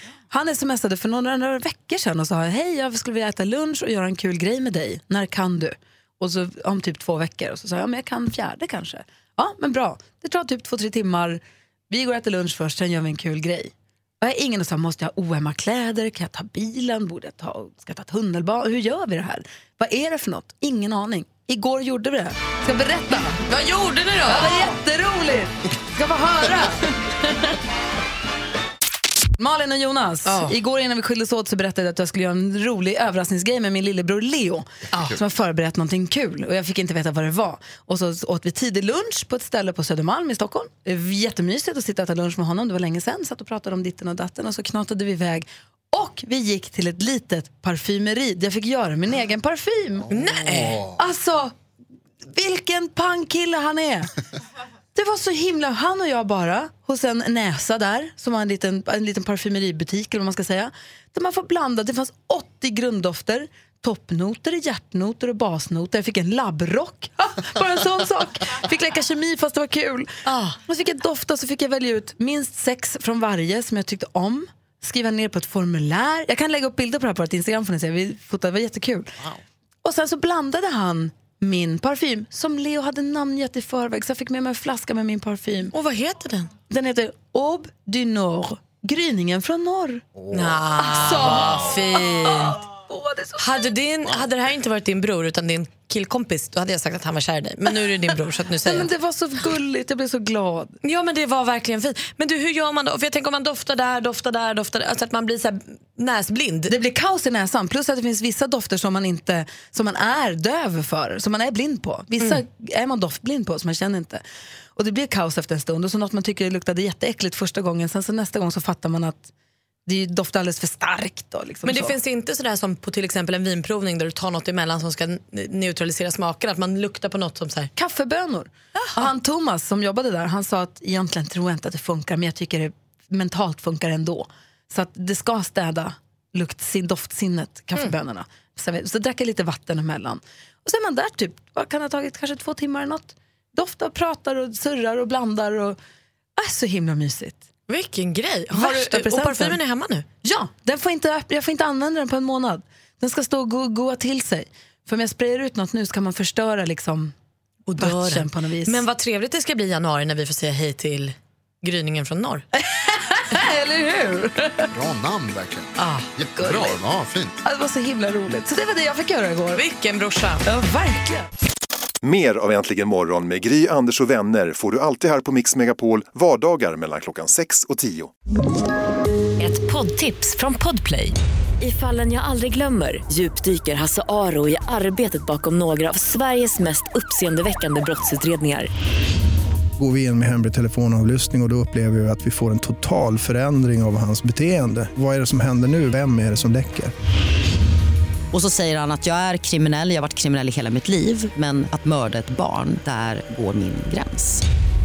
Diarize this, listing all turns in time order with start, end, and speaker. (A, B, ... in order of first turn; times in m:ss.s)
0:00.3-0:23.4 A
0:23.4-0:24.6 B
0:24.3-0:26.8 A
0:29.4-0:50.1 A
0:30.3-0:30.5 B
0:50.1-0:50.8 B
0:51.0-0:51.5 A
0:52.3-0:54.1 A
0:55.0-1:19.2 A
1:10.3-1:10.6 B
1:19.8-1:25.7 A
1:25.7-1:26.5 B
1:26.7-1:30.1 A
1:30.3-1:32.6 B
1:30.8-1:33.7 A
1:33.4-1:38.9 B
1:38.7-1:40.8 A
1:40.8-1:46.7 B
1:46.7-1:54.2 A
1:54.8-1:59.3 A
1:59.9-2:02.0 A
2:01.6-2:07.7 B
2:07.8-2:25.8 A
2:26.4-2:27.4 A
2:27.7-2:30.1 B
2:28.5-2:29.6 A
2:30.2-2:37.1 A
2:37.7-2:42.4 B
2:37.8-2:38.8 A
2:42.7-2:44.6 A
2:44.7-2:47.4 C
2:45.8-2:46.1 B
2:46.3-2:46.8 A
2:47.4-2:49.6 A
2:49.6-2:50.4 B
2:50.5-2:51.3 A
2:52.0-2:58.1 D
2:59.4-3:08.7 E
3:09.8-3:16.9 F
3:18.3-3:24.4 G